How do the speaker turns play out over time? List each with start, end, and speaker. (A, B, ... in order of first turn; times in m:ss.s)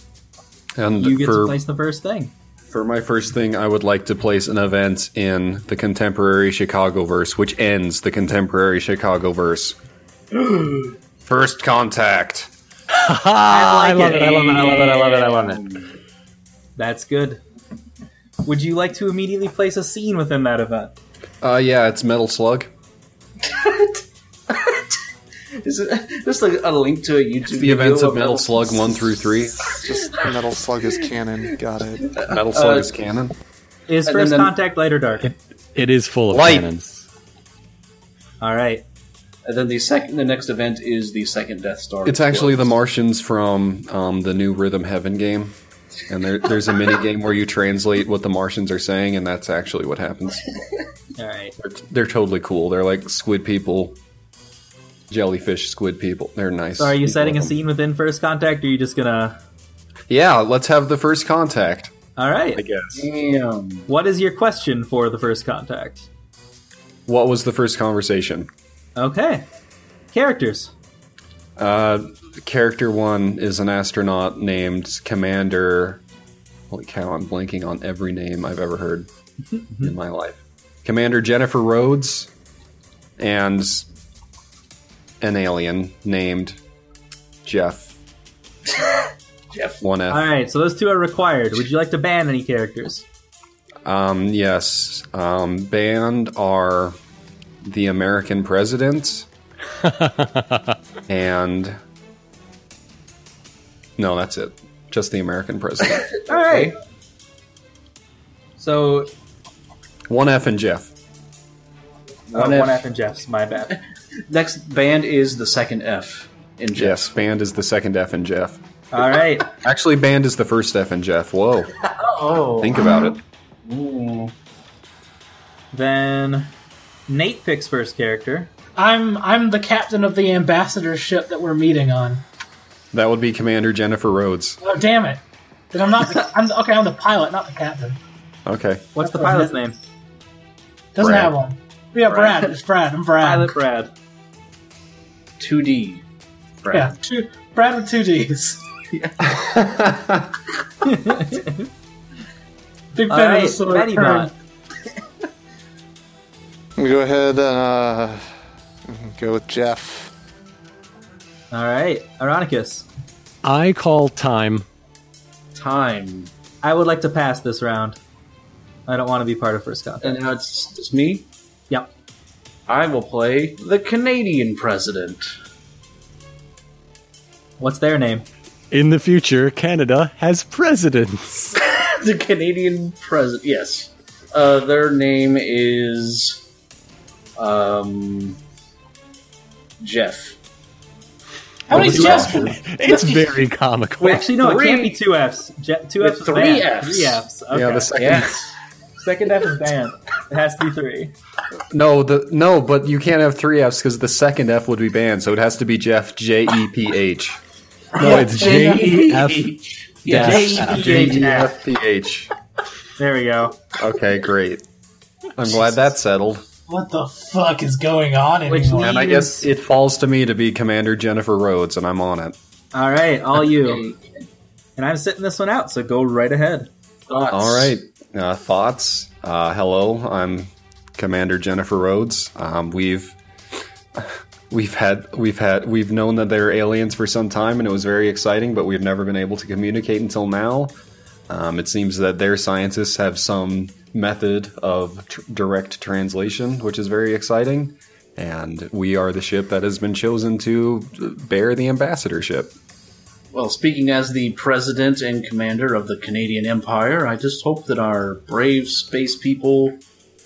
0:00.8-0:01.6 A
0:01.0-0:02.3 B
0:02.7-0:09.8 A
0:10.3-0:10.9 C
0:11.2-0:12.5 A
0:12.9-0:15.6 D
0:13.5-0:15.3 B
0:14.0-0:15.9 C
0:16.8-0:17.4 B
0:18.4-0:20.9 B
0:21.4-0:22.7 A
0:23.4-0:24.9 C
0:25.6-0:30.2 C
0:27.5-0:29.8 A
0:29.7-0:32.2 E
0:32.0-0:32.9 C
0:32.2-0:33.3 A
0:33.9-0:35.3 B
0:34.0-0:34.5 C
0:35.7-0:37.0 D
0:36.3-0:36.7 A
0:38.4-0:38.8 B
0:39.4-0:42.7 C
0:42.0-0:45.6 A
0:46.1-0:50.5 A
0:51.2-0:51.5 B
0:51.6-0:54.0 A
0:55.1-0:57.5 A
0:56.8-0:59.4 B
1:00.1-1:01.9 A
1:02.2-1:02.6 B
1:02.5-1:03.0 A
1:02.9-1:03.9 C
1:03.9-1:06.1 B
1:07.1-1:08.5 A
1:09.0-1:09.4 B
1:10.1-1:10.7 B
1:11.6-1:16.0 A
1:16.7-1:19.1 A
1:19.6-1:19.9 B
1:19.8-1:22.3 A
1:23.2-1:23.9 A
1:25.2-1:26.6 A
1:27.4-1:27.9 A
1:29.5-1:29.8 C
1:29.8-1:30.2 A
1:30.1-1:33.0 B
1:33.8-1:37.0 A
1:37.6-1:39.3 A
1:39.8-1:40.8 D
1:41.1-1:41.8 A
1:44.0-1:46.1 A
1:45.9-1:46.7 C
1:46.2-1:46.7 B
1:48.6-1:49.1 B
1:50.1-1:50.9 A
1:52.3-1:52.8 C
1:52.3-1:53.8 B
1:54.3-1:57.1 C
1:56.7-1:58.6 A
1:58.9-1:59.5 B
1:59.6-2:01.7 A
2:01.8-2:03.1 C
2:02.6-2:03.2 A
2:03.6-2:04.3 C
2:05.7-2:06.5 B
2:07.1-2:08.5 B
2:08.8-2:12.2 F
2:12.9-2:14.6 A
2:14.6-2:18.0 F
2:18.4-2:18.9 A
2:19.0-2:19.8 B
2:19.0-2:19.6 F
2:20.9-2:23.6 F
2:21.0-2:21.3 A
2:22.1-2:22.5 C
2:23.2-2:23.9 B
2:25.4-2:26.0 C
2:26.6-2:26.9 C
2:26.7-2:28.6 F
2:28.9-2:29.4 C
2:29.3-2:30.3 A
2:30.8-2:31.7 B
2:32.9-2:34.3 F
2:33.1-2:34.3 B
2:36.8-2:38.2 E
2:38.9-2:40.1 E
2:41.5-2:42.9 B
2:43.4-2:44.6 D
2:45.5-2:46.3 C
2:46.6-2:48.0 B
2:48.9-2:50.2 B
2:50.0-2:51.2 C
2:52.7-2:55.3 C
2:57.6-2:58.3 B
2:58.7-3:01.5 D
3:01.5-3:06.4 C
3:07.4-3:08.4 C
3:09.8-3:10.4 C
3:11.7-3:13.1 F
3:11.7-3:14.2 D
3:11.7-3:13.3 C
3:11.8-3:12.5 A
3:14.0-3:18.0 B
3:14.2-3:15.0 C
3:16.0-3:17.2 C
3:17.5-3:18.5 A
3:17.9-3:18.5 C
3:19.0-3:21.1 B
3:21.7-3:27.4 A
3:28.0-3:31.2 C
3:28.0-3:29.5 D
3:28.0-3:28.8 F
3:30.1-3:30.8 D
3:30.1-3:31.5 B
3:30.3-3:32.3 A
3:33.0-3:33.6 B
3:33.8-3:34.6 A
3:35.4-3:36.4 A
3:36.7-3:39.2 F
3:38.5-3:39.4 B
3:38.7-3:42.4 A
3:42.7-3:43.8 B
3:43.4-3:44.2 C
3:44.8-3:46.7 B
3:47.1-3:47.7 C
3:47.3-3:53.2 A
3:54.0-4:00.8 A
4:01.3-4:12.5 A
4:13.3-4:19.8 C